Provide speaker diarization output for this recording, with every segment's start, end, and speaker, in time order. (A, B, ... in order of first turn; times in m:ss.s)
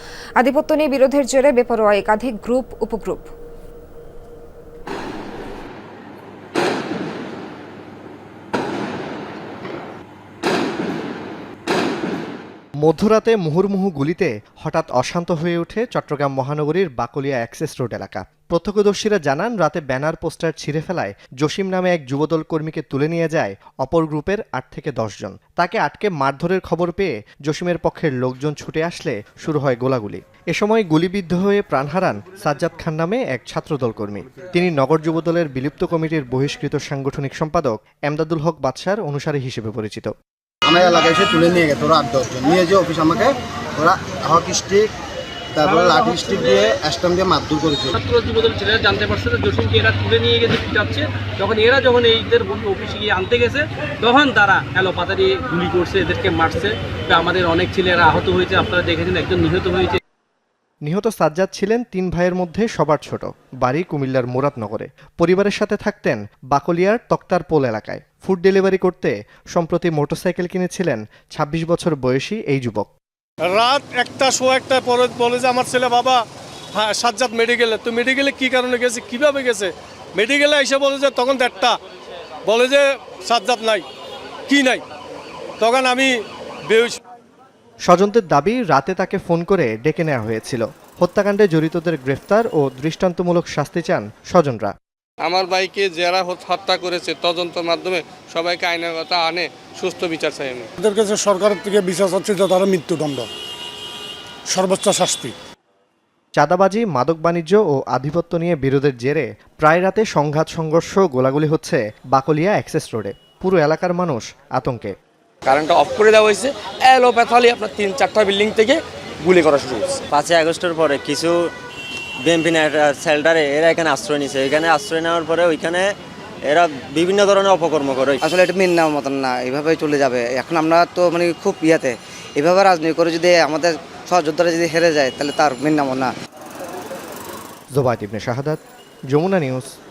0:00.4-0:03.3 A
0:12.8-0:40.1 B
0:40.6-0:44.9 C
0:45.5-0:48.0 C
0:45.6-0:46.7 D
0:48.0-1:00.0 D
1:00.8-1:12.9 B
1:13.5-1:16.2 E
1:16.7-1:21.7 E
1:22.5-1:23.8 E
1:24.5-1:24.8 E
1:25.6-1:26.1 E
1:26.7-1:27.0 E
1:27.9-1:34.7 B
1:35.2-1:40.7 F
1:40.8-1:43.3 G
1:44.5-1:45.3 G
1:46.4-1:54.9 B
1:55.4-2:00.0 H
2:00.1-2:01.5 I
2:02.2-2:05.9 I
2:06.4-2:08.2 I
2:08.2-2:16.1 J
2:17.7-2:19.7 B